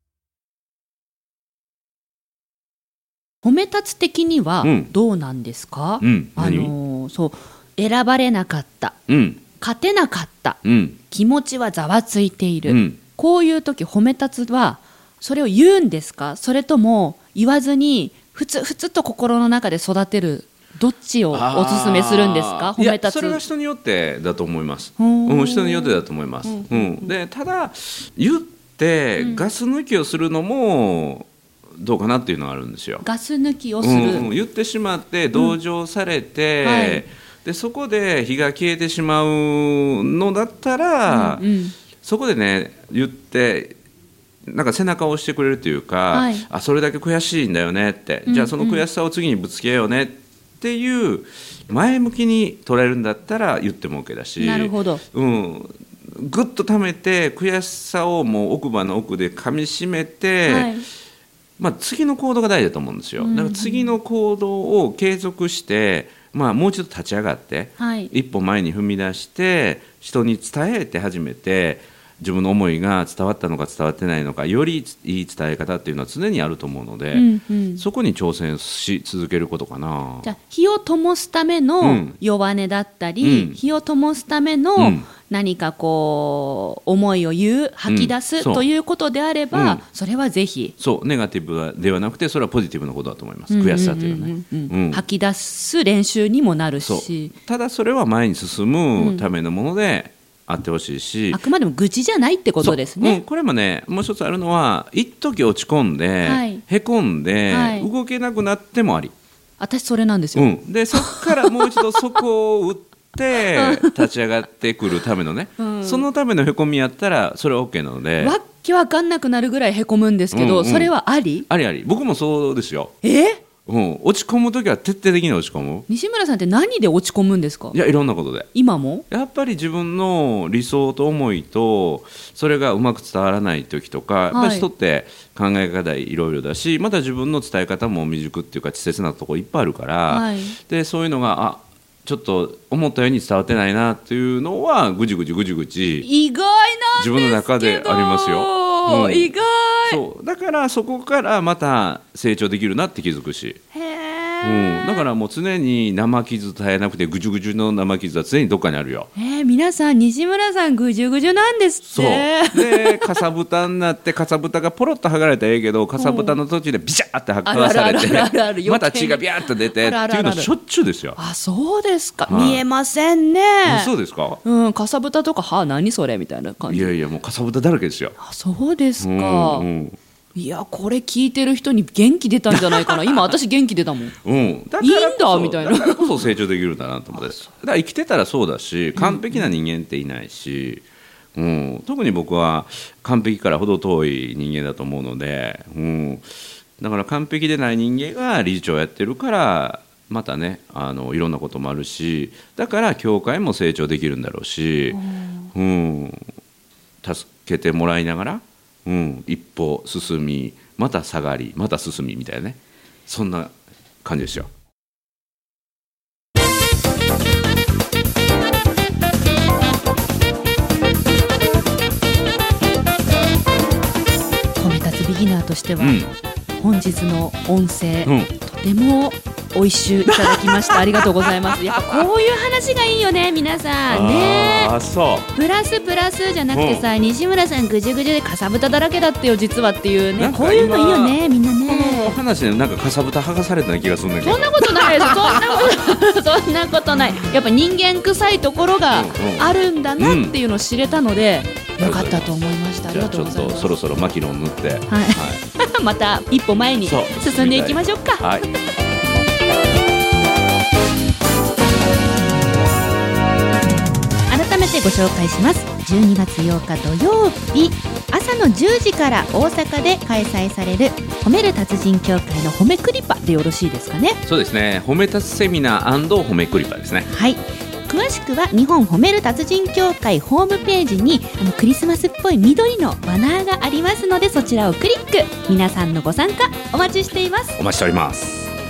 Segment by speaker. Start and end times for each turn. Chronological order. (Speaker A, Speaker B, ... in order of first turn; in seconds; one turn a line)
Speaker A: 3.4-9.0
Speaker B: 4.6-4.9
Speaker B: 6.0-6.7
Speaker B: 9.1-9.4
Speaker A: 9.6-23.4
Speaker B: 10.6-11.0
Speaker B: 12.7-13.0
Speaker B: 21.3-33.0
Speaker A: 25.0-27.1
Speaker A: 29.2-29.5
Speaker A: 33.0-34.3
Speaker B: 33.8-41.5
Speaker A: 36.6-37.0
Speaker A: 41.1-41.7
Speaker B: 42.0-43.8
Speaker B: 44.5-60.7
Speaker A: 46.1-46.5
Speaker A: 48.3-48.8
Speaker A: 54.4-55.0
Speaker A: 60.5-60.9
Speaker B: 61.6-80.3
Speaker A: 63.2-63.9
Speaker A: 67.8-68.1
Speaker A: 77.1-77.8
Speaker A: 80.2-90.7
Speaker B: 81.8-82.2
Speaker B: 83.2-83.6
Speaker B: 84.8-85.1
Speaker B: 87.9-88.7
Speaker B: 89.5-89.8
Speaker B: 90.8-95.0
Speaker A: 93.5-97.3
Speaker B: 96.8-101.4
Speaker A: 99.0-99.2
Speaker A: 101.3-103.2
Speaker B: 102.6-109.1
Speaker A: 106.2-106.6
Speaker A: 107.5-107.9
Speaker A: 109.6-112.1
Speaker B: 110.3-118.3
Speaker A: 113.5-113.9
Speaker A: 115.6-116.1
Speaker A: 118.2-121.5
Speaker B: 120.3-120.9
Speaker B: 121.5-122.9
Speaker A: 123.0-123.4
Speaker B: 123.6-125.8
Speaker A: 125.9-127.8
Speaker B: 127.7-128.5
Speaker A: 128.5-129.0
Speaker B: 129.1-146.1
Speaker A: 134.3-134.7
Speaker A: 140.1-140.6
Speaker A: 146.0-150.0
Speaker B: 146.9-149.3
Speaker B: 149.8-153.6
Speaker A: 153.7-155.1
Speaker B: 154.4-159.1
Speaker A: 159.2-163.2
Speaker B: 161.9-171.2
Speaker A: 166.0-166.4
Speaker A: 167.4-170.5
Speaker A: 171.2-173.9
Speaker B: 172.2-172.6
Speaker B: 173.6-174.4
Speaker A: 174.4-176.9
Speaker B: 176.7-178.1
Speaker A: 178.2-179.7
Speaker B: 179.0-180.0
Speaker A: 180.3-184.1
Speaker B: 182.5-183.2
Speaker B: 184.2-205.0
Speaker A: 184.8-186.2
Speaker A: 187.2-187.4
Speaker A: 188.9-189.4
Speaker A: 204.9-205.5
Speaker B: 205.5-206.3
Speaker B: 207.0-214.5
Speaker A: 224.6-226.0
Speaker B: 225.8-226.1
Speaker A: 226.6-234.7
Speaker B: 228.0-228.3
Speaker B: 230.1-232.1
Speaker B: 233.9-235.3
Speaker A: 235.3-242.2
Speaker B: 236.5-236.8
Speaker B: 240.2-245.7
Speaker A: 244.2-253.7
Speaker B: 248.9-250.3
Speaker B: 251.8-255.4
Speaker A: 254.9-258.3
Speaker B: 256.8-258.5
Speaker A: 264.3-274.2
Speaker B: 274.2-277.1
Speaker A: 277.1-287.6
Speaker B: 287.6-288.5